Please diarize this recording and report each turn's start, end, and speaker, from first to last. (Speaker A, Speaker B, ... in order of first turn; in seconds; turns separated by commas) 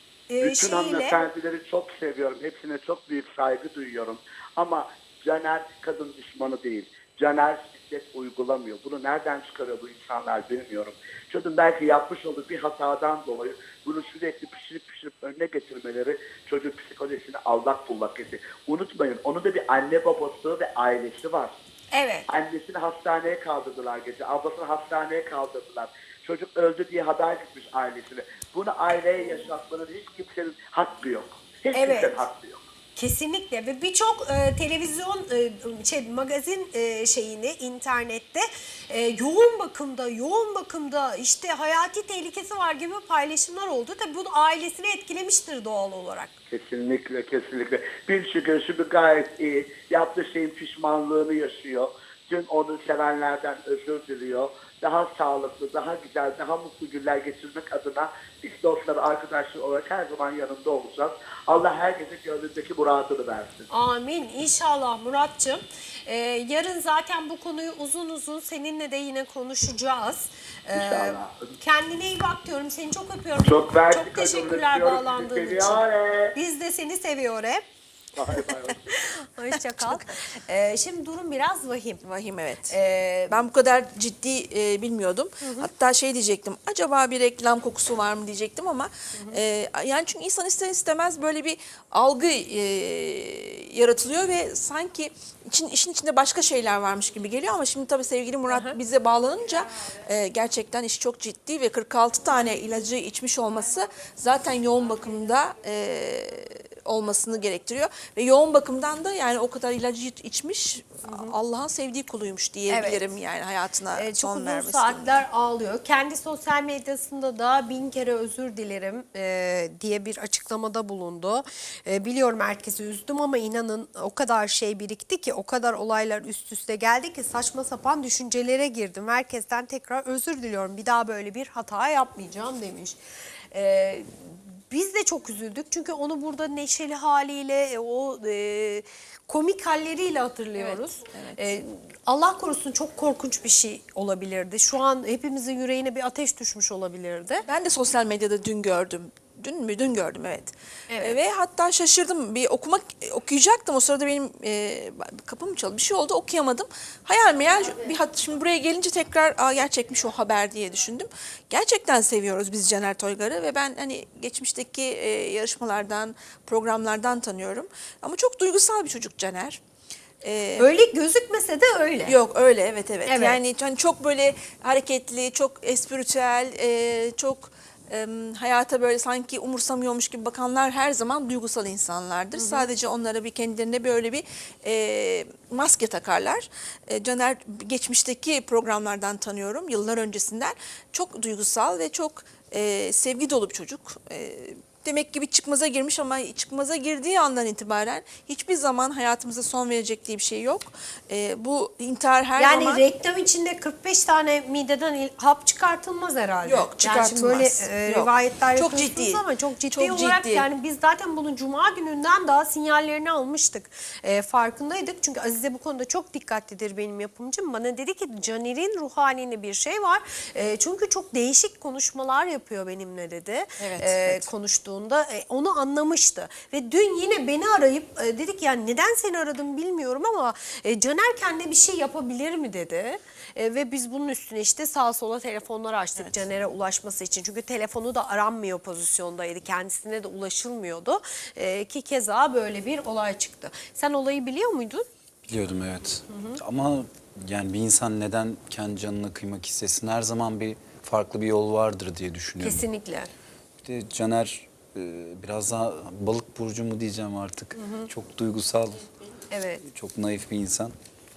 Speaker A: 0.3-1.2, Speaker B: 0.4-21.6, Speaker A: 21.9-22.3, Speaker B: 22.3-32.6, Speaker A: 31.7-32.2, Speaker A: 33.0-46.3, Speaker B: 46.5-63.7, Speaker A: 63.7-75.8, Speaker B: 70.7-71.5, Speaker B: 73.4-76.3, Speaker A: 76.3-77.6, Speaker B: 78.2-78.8, Speaker A: 78.4-82.0, Speaker C: 79.8-80.0, Speaker C: 82.0-82.8, Speaker A: 82.7-83.4, Speaker C: 83.3-115.2, Speaker A: 85.4-85.7, Speaker A: 98.5-98.8, Speaker A: 111.0-111.3, Speaker A: 112.7-113.0, Speaker A: 113.9-133.0, Speaker A: 133.5-147.4, Speaker C: 140.6-141.5, Speaker C: 147.4-169.6, Speaker A: 150.9-151.2, Speaker C: 170.2-170.7, Speaker A: 170.6-172.2, Speaker C: 172.1-202.8, Speaker A: 173.1-173.4, Speaker A: 182.4-182.7, Speaker A: 202.4-244.9, Speaker C: 206.4-210.5, Speaker C: 223.6-224.3, Speaker D: 245.3-252.7, Speaker A: 246.1-246.4, Speaker A: 252.4-253.1, Speaker D: 253.6-258.8, Speaker A: 257.6-257.9, Speaker A: 259.3-259.6, Speaker D: 259.6-260.7